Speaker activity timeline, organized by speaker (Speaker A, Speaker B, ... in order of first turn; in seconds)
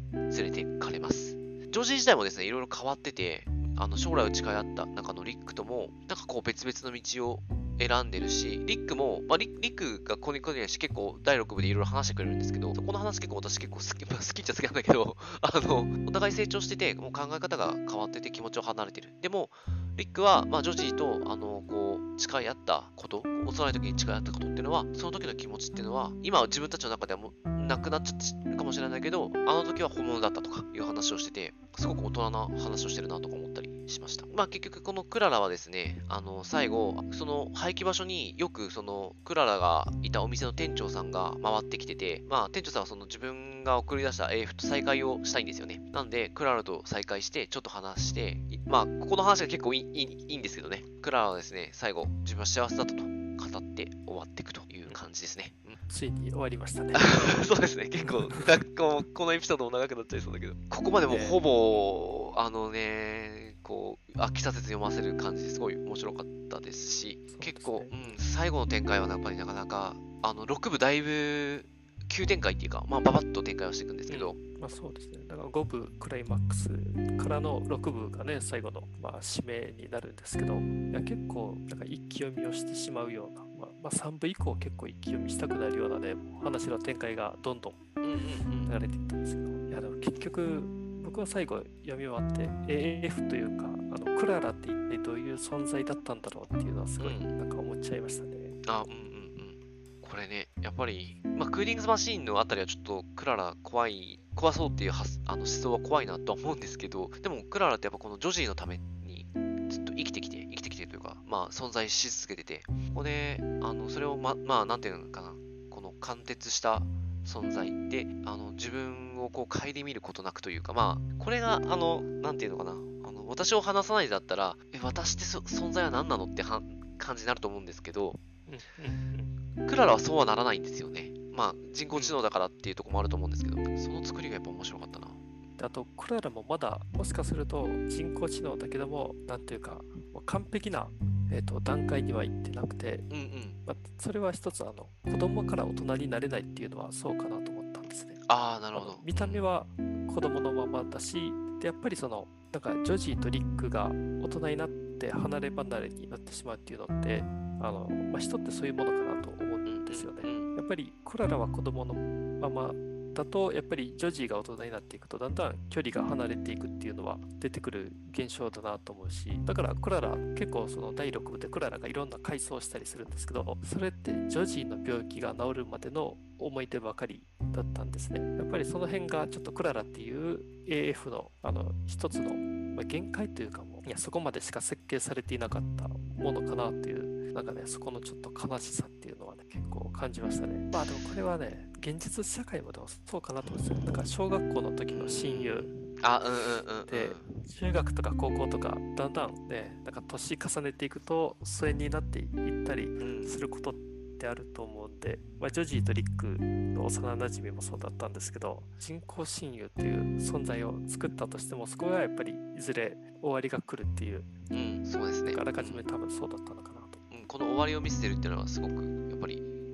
Speaker A: 0.3-55.8, 56.9-74.4, 88.0-88.7, 97.0-97.3, 98.6-128.2, 129.6-135.2, 143.1-143.6, 148.3-149.4, 159.7-160.5, 194.9-197.3, 203.0-203.4, 214.5-215.8, 217.1-219.5
Speaker B: 55.9-57.4, 61.1-61.4, 67.3-67.9, 74.1-87.9, 88.6-98.6, 128.5-129.3, 131.9-132.2, 135.6-143.1, 143.6-148.2, 148.7-195.8, 196.9-214.3, 215.3-217.0